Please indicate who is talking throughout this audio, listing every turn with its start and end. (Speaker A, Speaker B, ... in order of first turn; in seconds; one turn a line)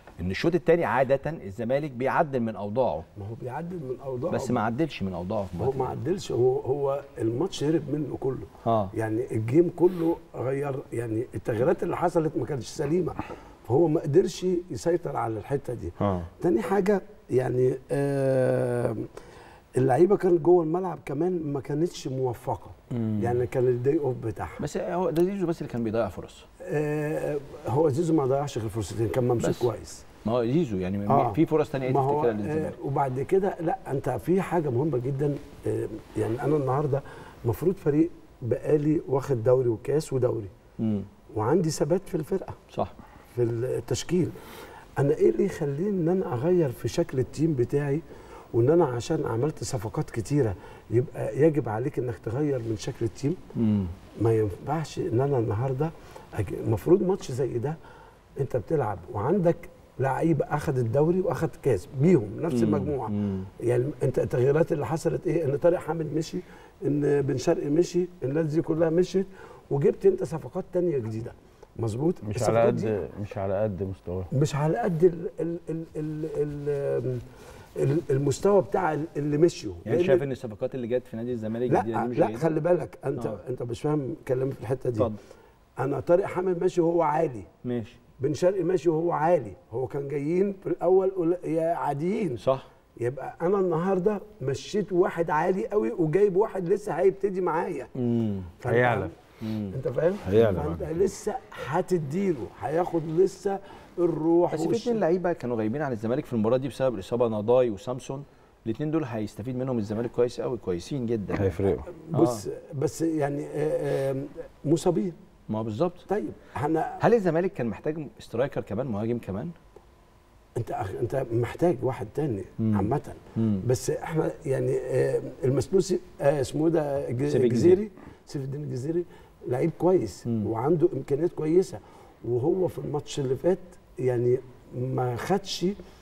Speaker A: 0.2-3.0
Speaker B: 3.2-4.6
Speaker A: 4.3-6.0
Speaker B: 5.6-19.1
Speaker A: 8.7-8.9
Speaker A: 16.0-16.3
Speaker B: 19.8-24.6
Speaker A: 22.9-23.4
Speaker A: 24.6-26.5
Speaker B: 26.6-30.0
Speaker A: 29.4-29.7
Speaker A: 30.2-32.8
Speaker B: 31.1-40.5
Speaker A: 40.8-41.1
Speaker B: 41.3-42.6
Speaker B: 43.4-44.3
Speaker B: 45.0-48.0
Speaker B: 48.5-53.4
Speaker A: 53.6-53.9
Speaker B: 54.2-57.8
Speaker B: 58.4-72.9
Speaker A: 62.5-63.5
Speaker C: 72.2-74.3
Speaker B: 74.3-77.2
Speaker B: 77.8-80.2
Speaker A: 79.8-82.5
Speaker B: 81.7-85.1
Speaker B: 85.8-87.5
Speaker A: 87.6-88.0
Speaker B: 88.2-92.4
Speaker A: 92.4-92.7
Speaker B: 93.0-97.9
Speaker A: 98.0-98.5
Speaker B: 98.6-99.2
Speaker C: 98.7-99.1
Speaker A: 99.4-99.8
Speaker B: 99.7-105.0
Speaker C: 100.2-101.0
Speaker A: 104.5-112.4
Speaker C: 111.3-111.9
Speaker B: 111.9-115.2
Speaker A: 115.5-116.0
Speaker B: 116.1-117.0
Speaker A: 117.0-119.5
Speaker B: 120.6-135.8
Speaker A: 122.6-123.6
Speaker A: 127.3-127.8